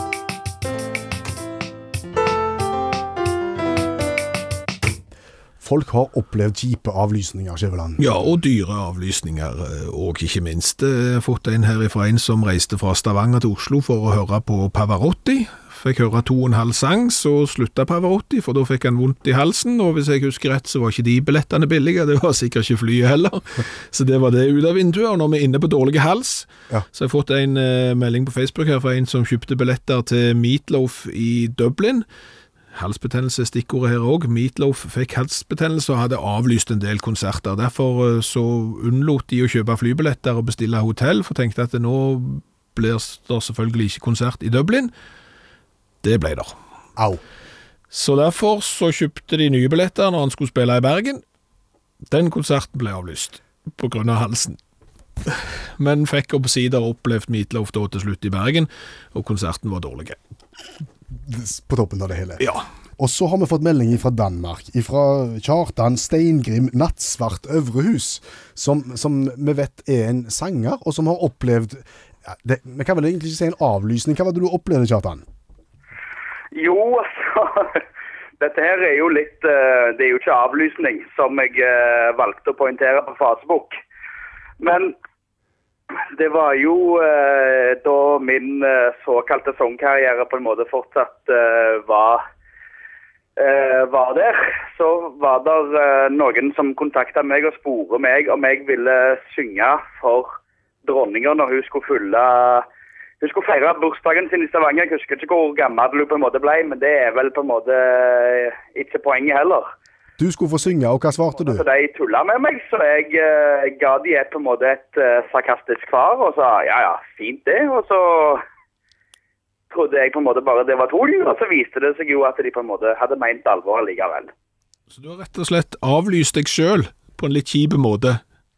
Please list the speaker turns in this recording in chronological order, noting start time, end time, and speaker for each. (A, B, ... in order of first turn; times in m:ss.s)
0:05.6-0:08.0 A
0:08.0-0:32.0 B
0:32.7-0:44.9 B
0:46.0-0:46.5 B
0:47.9-0:51.2 B
0:52.1-0:54.6 B
0:55.2-1:00.2 B
1:01.1-1:02.4 A
1:02.4-1:02.6 B
1:03.0-1:15.2 A
1:16.5-1:17.8 C
1:18.4-1:23.8 C
1:24.6-1:24.9 C
1:26.1-1:32.2 C
1:33.4-1:40.3 C
1:40.8-1:42.6 C
1:43.2-1:49.7 C
1:50.2-1:51.6 A
1:51.4-1:58.4 C
1:59.7-2:04.3 C
2:04.9-2:08.2 B